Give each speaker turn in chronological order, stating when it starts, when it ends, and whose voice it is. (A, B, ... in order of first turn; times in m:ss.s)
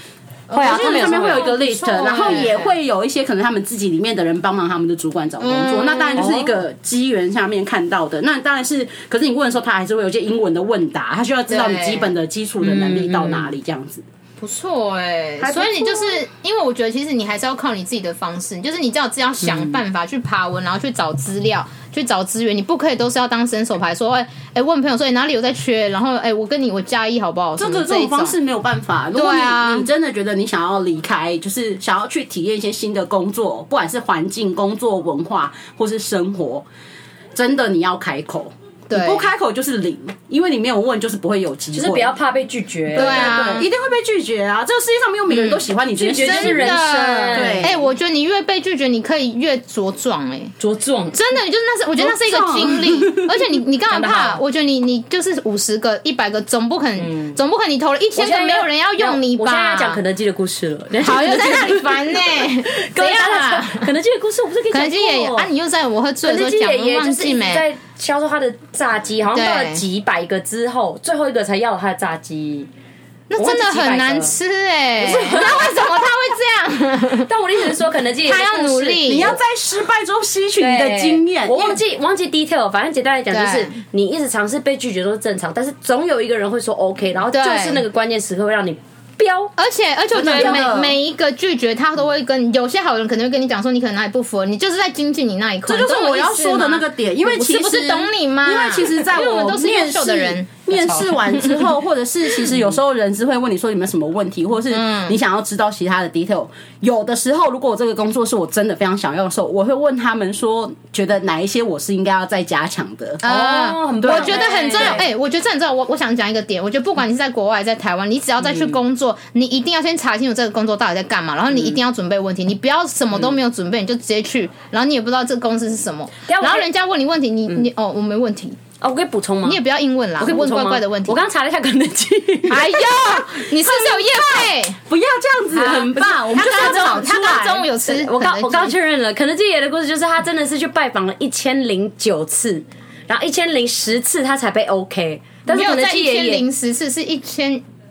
0:00.5-0:02.7 A
0:00.5-0:01.6 B
0:00.6-0:14.0 C
0:05.4-0:06.4 A
0:06.2-0:06.5 B
0:11.5-0:12.1 A
0:12.6-0:13.5 B
0:14.4-0:28.4 A
0:15.4-0:16.2 B
0:27.6-0:36.6 C
0:29.2-0:29.9 A
0:37.4-0:42.1 C
0:38.9-0:39.3 A
0:41.7-0:43.4 B
0:42.9-0:46.8 C
0:43.0-0:43.7 A
0:45.4-0:47.8 B
0:46.2-0:50.5 A
0:47.3-0:47.8 C
0:50.6-0:51.2 B
0:51.1-1:00.0 A
0:52.0-0:53.5 C
0:53.9-0:54.4 B
0:57.0-0:57.4 B
0:58.2-1:05.5 B
1:01.0-1:03.9 A
1:04.7-1:07.7 A
1:06.2-1:12.7 B
1:09.3-1:09.8 A
1:13.3-1:17.3 A
1:13.4-1:14.4 B
1:15.0-1:16.0 B
1:17.2-1:19.3 B
1:18.2-1:19.4 A
1:19.0-1:21.8 C
1:20.6-1:29.5 B
1:23.3-1:23.7 A
1:27.3-1:27.8 A
1:29.6-1:41.6 A
1:30.1-1:31.0 C
1:30.2-1:30.8 B
1:35.7-1:53.2 C
1:44.7-1:45.2 A
1:53.2-2:08.6 A
1:53.2-1:55.1 B
1:54.0-1:55.0 C
2:06.3-2:06.7 B
2:08.8-2:09.6 B
2:09.4-2:11.2 A
2:10.2-2:12.7 B
2:12.5-2:14.8 A
2:12.5-2:17.7 C
2:15.5-2:18.8 A
2:17.8-2:26.4 B
2:25.5-2:27.6 A